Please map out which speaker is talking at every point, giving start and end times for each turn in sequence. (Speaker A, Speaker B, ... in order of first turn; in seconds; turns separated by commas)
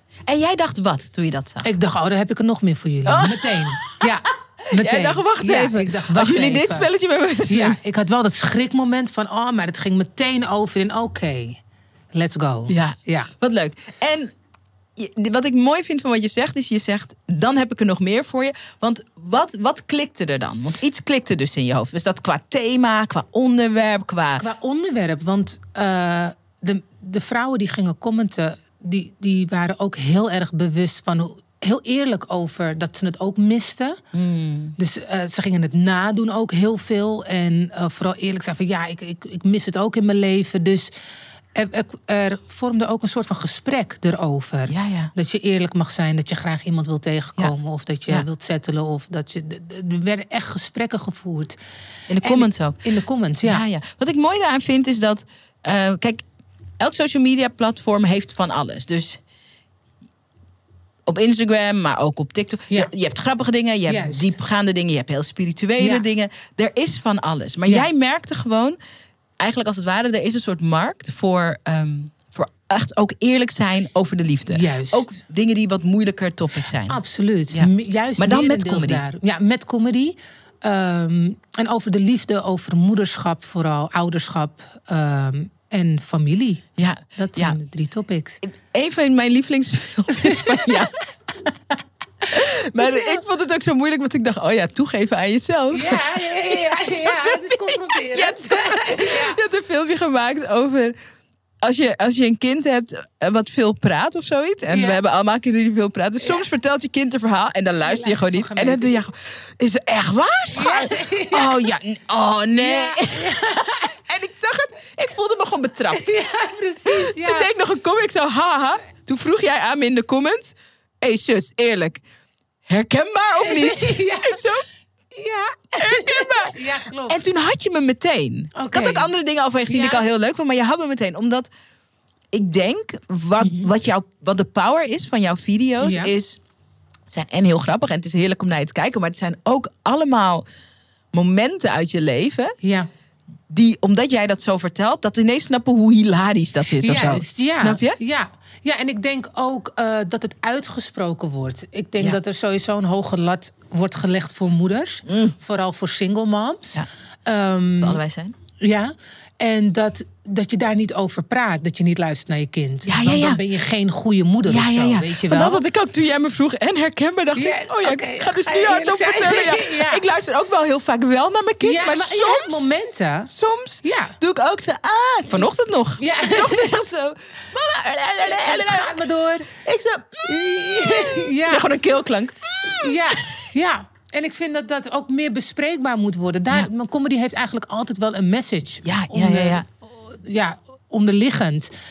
Speaker A: 0.3-1.7, Speaker B: 1.6-6.9, Speaker A: 3.0-4.1, Speaker A: 4.7-7.8, Speaker B: 7.5-11.6, Speaker B: 12.1-13.3, Speaker A: 12.7-14.3, Speaker A: 14.9-24.4, Speaker B: 24.4-34.0, Speaker A: 34.1-34.7, Speaker B: 34.8-40.9, Speaker B: 41.5-51.5, Speaker A: 44.7-45.1, Speaker A: 52.1-52.8, Speaker B: 52.2-53.6, Speaker A: 53.4-56.2, Speaker A: 56.8-59.2, Speaker A: 61.0-68.8, Speaker B: 63.9-64.4, Speaker B: 65.8-66.0, Speaker A: 69.4-77.0, Speaker B: 74.5-75.1, Speaker B: 76.9-88.4, Speaker A: 77.5-79.0, Speaker A: 86.8-87.6, Speaker A: 88.4-91.5, Speaker B: 90.1-91.0, Speaker A: 92.3-100.9, Speaker B: 92.8-93.2, Speaker B: 95.7-99.4, Speaker A: 101.6-116.2, Speaker B: 104.7-105.0, Speaker B: 107.8-109.0, Speaker B: 110.5-111.7, Speaker B: 112.6-114.0, Speaker B: 115.9-117.5, Speaker A: 116.9-122.0, Speaker A: 122.7-124.7, Speaker B: 123.4-124.4, Speaker B: 125.1-127.2, Speaker A: 125.8-131.5, Speaker B: 128.5-129.1, Speaker B: 129.7-130.1, Speaker A: 132.3-136.4, Speaker B: 133.4-133.7, Speaker B: 135.8-136.1, Speaker A: 137.1-140.4, Speaker A: 141.1-142.6, Speaker B: 142.6-142.9, Speaker A: 143.5-148.0, Speaker B: 146.8-158.0, Speaker A: 155.1-155.3, Speaker A: 157.8-158.3, Speaker B: 158.6-165.6, Speaker A: 162.9-163.4, Speaker A: 164.4-172.7, Speaker B: 167.3-170.0, Speaker B: 171.6-173.3, Speaker A: 173.3-183.4, Speaker B: 173.8-174.2, Speaker B: 176.0-176.8, Speaker B: 178.3-179.5, Speaker B: 180.2-181.7, Speaker B: 182.7-191.7, Speaker A: 188.8-189.6